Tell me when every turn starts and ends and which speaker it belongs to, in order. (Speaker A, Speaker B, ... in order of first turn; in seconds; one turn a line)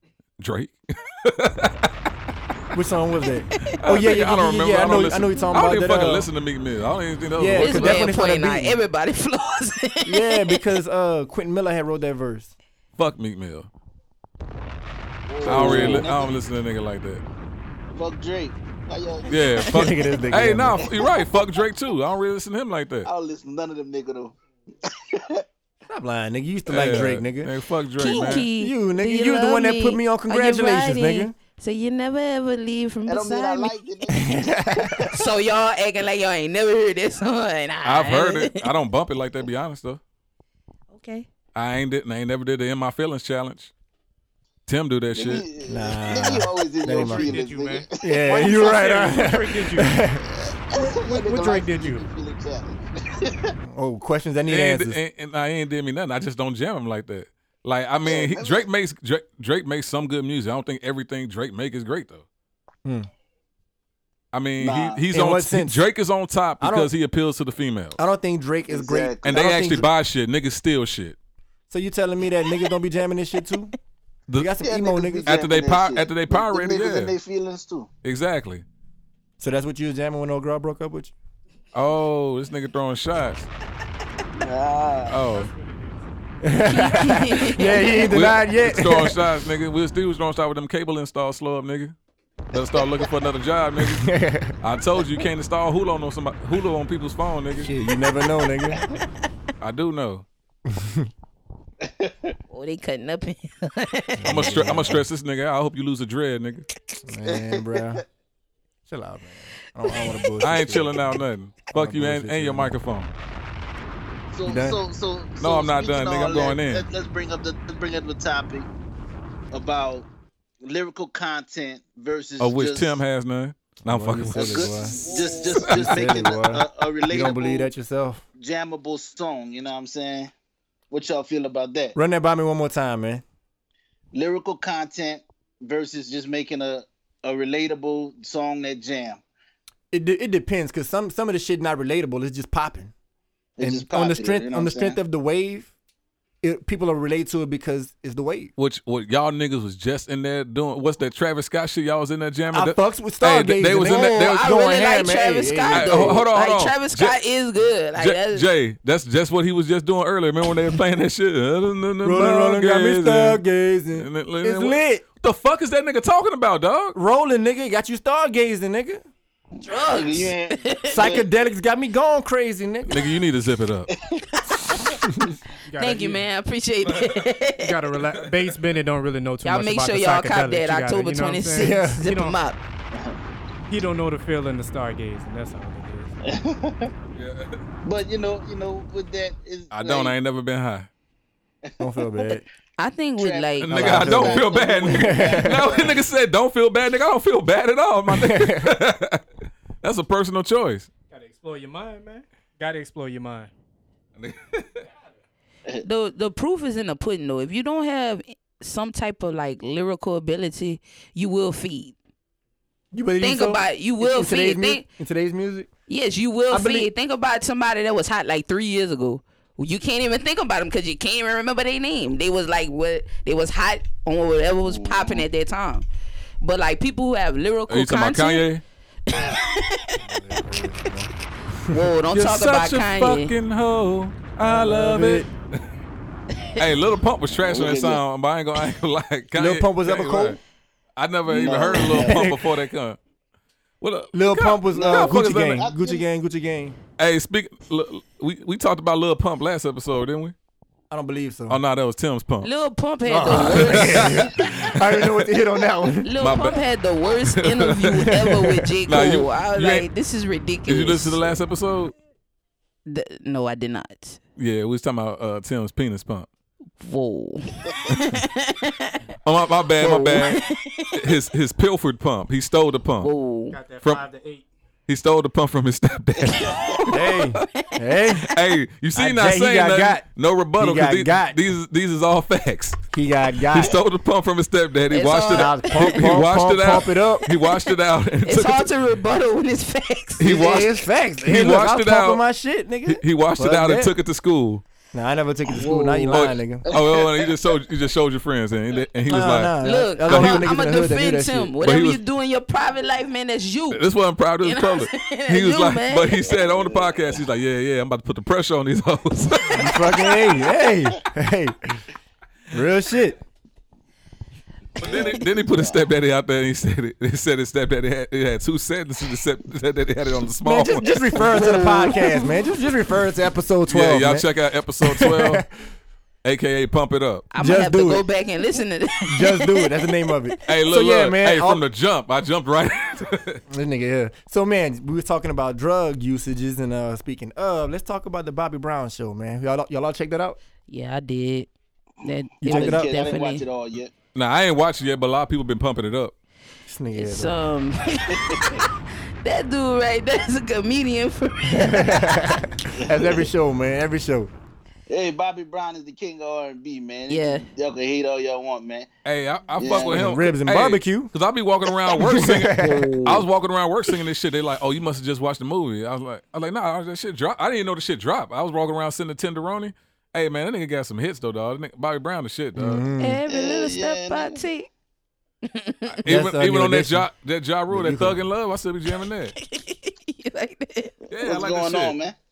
Speaker A: 0.4-1.9
Speaker B: 2.7-6.3
Speaker A: 3.8-8.1
Speaker B: 7.4-8.8
Speaker C: 7.6-10.6
Speaker B: 10.1-12.5
Speaker A: 13.0-13.7
Speaker D: 15.3-16.4
Speaker B: 15.4-16.1
Speaker A: 15.4-17.2
Speaker D: 17.9-19.7
Speaker A: 19.3-23.1
Speaker B: 19.7-20.9
Speaker D: 20.9-21.5
Speaker D: 23.1-25.4
Speaker B: 25.9-31.4
Speaker A: 26.7-28.5
Speaker C: 28.0-33.8
Speaker D: 33.1-35.3
Speaker B: 34.1-35.2
Speaker C: 35.1-38.7
Speaker A: 37.9-40.0
Speaker C: 40.9-41.3
Speaker A: 41.5-43.7
Speaker A: 44.7-45.5
Speaker D: 45.1-48.2
Speaker B: 45.6-47.3
Speaker E: 46.9-50.0
Speaker B: 48.0-50.2
Speaker D: 50.3-53.6
Speaker E: 50.8-52.1
Speaker B: 53.6-55.0
Speaker A: 54.5-62.3
Speaker D: 58.0-58.7
Speaker A: 64.3-68.0
Speaker D: 64.6-65.0
Speaker B: 65.1-65.9
Speaker B: 66.6-66.9
Speaker B: 68.0-69.9
Speaker D: 68.7-69.4
Speaker A: 69.2-71.2
Speaker B: 71.7-73.7
Speaker A: 74.3-74.5
Speaker B: 74.4-75.4
Speaker D: 74.6-77.9
Speaker A: 75.3-77.1
Speaker A: 78.0-78.7
Speaker B: 79.4-81.1
Speaker A: 81.7-83.5
Speaker D: 84.4-85.2
Speaker A: 85.1-85.5
Speaker E: 85.2-86.1
Speaker B: 86.4-89.4
Speaker C: 86.7-88.1
Speaker A: 88.0-92.0
Speaker A: 92.5-94.1
Speaker B: 93.8-94.5
Speaker A: 94.6-97.7
Speaker B: 97.6-98.8
Speaker A: 99.6-100.3
Speaker B: 100.7-101.1
Speaker D: 101.8-102.4
Speaker C: 102.5-104.7
Speaker B: 104.2-105.1
Speaker A: 104.3-106.7
Speaker B: 107.0-108.0
Speaker D: 107.2-108.0
Speaker B: 108.9-111.0
Speaker A: 110.4-113.1
Speaker B: 111.7-112.8
Speaker D: 114.3-118.7
Speaker B: 114.5-114.8
Speaker A: 115.4-116.9
Speaker D: 119.5-120.1
Speaker D: 120.6-123.0
Speaker A: 122.4-124.8
Speaker B: 123.8-128.2
Speaker D: 124.3-127.7
Speaker C: 125.0-125.5
Speaker A: 125.6-126.0
Speaker D: 128.4-130.3
Speaker D: 130.9-132.0
Speaker B: 132.0-133.2
Speaker D: 134.1-139.2
Speaker B: 139.9-142.9
Speaker D: 143.6-145.0
Speaker B: 143.6-145.7
Speaker B: 146.4-148.5
Speaker A: 148.6-154.4
Speaker B: 152.5-156.2
Speaker C: 153.9-158.5
Speaker A: 155.7-157.2
Speaker A: 158.0-163.4
Speaker B: 162.0-165.0
Speaker A: 163.9-167.0
Speaker B: 166.9-169.0
Speaker C: 169.6-171.1
Speaker D: 169.8-171.3
Speaker B: 170.9-173.0
Speaker A: 172.8-173.9
Speaker D: 173.9-174.9
Speaker B: 175.1-175.4
Speaker E: 175.7-176.3
Speaker C: 175.8-177.7
Speaker A: 176.9-177.2
Speaker E: 177.5-182.4
Speaker C: 179.4-182.6
Speaker B: 181.6-182.0
Speaker D: 182.9-183.2
Speaker E: 183.7-186.1
Speaker D: 186.2-186.9
Speaker A: 187.2-187.6
Speaker D: 187.8-190.1
Speaker A: 189.7-190.9
Speaker D: 191.6-192.4
Speaker B: 191.8-192.4
Speaker C: 192.8-193.8
Speaker D: 193.2-196.0
Speaker A: 193.6-199.2
Speaker B: 193.7-195.8
Speaker B: 198.1-198.8
Speaker A: 199.8-200.9
Speaker E: 201.1-203.5
Speaker A: 204.2-204.9
Speaker C: 205.8-211.9
Speaker B: 212.9-215.7
Speaker C: 213.2-214.8
Speaker C: 215.9-225.9
Speaker B: 216.5-216.9
Speaker D: 224.7-225.2
Speaker C: 226.4-228.5
Speaker A: 227.7-228.6
Speaker C: 229.1-230.4
Speaker B: 230.0-231.1
Speaker C: 231.7-233.3
Speaker A: 232.1-235.6
Speaker B: 234.4-235.3
Speaker A: 236.6-240.4
Speaker D: 237.4-238.0
Speaker B: 239.3-240.4
Speaker A: 241.0-243.0
Speaker D: 241.3-242.2
Speaker B: 241.8-242.5
Speaker A: 243.8-245.7
Speaker B: 244.1-246.8
Speaker D: 244.7-246.1
Speaker A: 247.0-250.3
Speaker B: 250.9-251.6
Speaker A: 251.5-252.5
Speaker C: 252.4-254.2
Speaker B: 253.1-256.1
Speaker A: 253.3-254.8
Speaker D: 253.4-254.2
Speaker C: 256.0-261.4
Speaker A: 256.2-256.6
Speaker A: 257.2-258.3
Speaker B: 258.1-258.6
Speaker A: 258.9-259.9
Speaker A: 260.7-261.9
Speaker C: 262.9-264.2
Speaker A: 264.4-266.3
Speaker C: 266.8-269.0
Speaker A: 269.2-270.4
Speaker C: 269.8-271.2
Speaker A: 271.0-273.1
Speaker C: 273.0-273.6
Speaker E: 273.5-274.5
Speaker A: 274.9-277.2
Speaker D: 276.2-276.8
Speaker C: 276.6-278.2
Speaker B: 276.9-278.3
Speaker A: 278.3-282.8
Speaker B: 278.9-280.0
Speaker B: 280.6-281.4
Speaker B: 282.9-283.8
Speaker A: 283.5-288.7
Speaker C: 284.9-286.1
Speaker B: 285.3-287.3
Speaker C: 287.5-287.7
Speaker C: 288.3-290.7
Speaker A: 290.2-292.2
Speaker B: 290.2-293.9
Speaker A: 292.9-294.6
Speaker B: 294.9-296.6
Speaker C: 295.6-296.1
Speaker A: 296.1-299.6
Speaker D: 296.6-297.4
Speaker B: 299.1-301.5
Speaker C: 299.6-303.8
Speaker A: 300.1-300.5
Speaker A: 301.6-302.0
Speaker A: 303.7-310.2
Speaker C: 304.4-306.2
Speaker D: 306.3-307.2
Speaker B: 309.5-311.8
Speaker B: 312.5-313.2
Speaker A: 314.8-321.3
Speaker D: 314.8-315.9
Speaker B: 320.4-324.3
Speaker C: 321.1-322.4
Speaker A: 323.7-325.4
Speaker B: 324.8-325.5
Speaker A: 326.2-327.3
Speaker C: 327.3-330.0
Speaker B: 327.4-328.0
Speaker B: 329.1-331.6
Speaker A: 330.5-333.4
Speaker B: 333.5-340.4
Speaker C: 340.7-341.5
Speaker C: 342.0-343.4
Speaker B: 342.4-342.9
Speaker D: 342.5-343.9
Speaker A: 344.1-346.1
Speaker B: 346.7-347.3
Speaker C: 347.0-352.6
Speaker D: 348.1-348.6
Speaker B: 351.5-354.3
Speaker D: 352.7-353.3
Speaker D: 354.9-358.9
Speaker C: 357.1-357.5
Speaker A: 359.1-372.9
Speaker D: 359.6-360.0
Speaker B: 359.8-361.1
Speaker B: 361.9-363.0
Speaker C: 362.6-363.2
Speaker B: 372.6-373.2
Speaker C: 373.0-374.7
Speaker D: 373.3-374.4
Speaker C: 375.5-376.0
Speaker A: 375.9-379.4
Speaker B: 376.1-377.1
Speaker B: 377.7-378.2
Speaker C: 379.4-380.9
Speaker A: 381.1-382.0
Speaker D: 381.2-382.1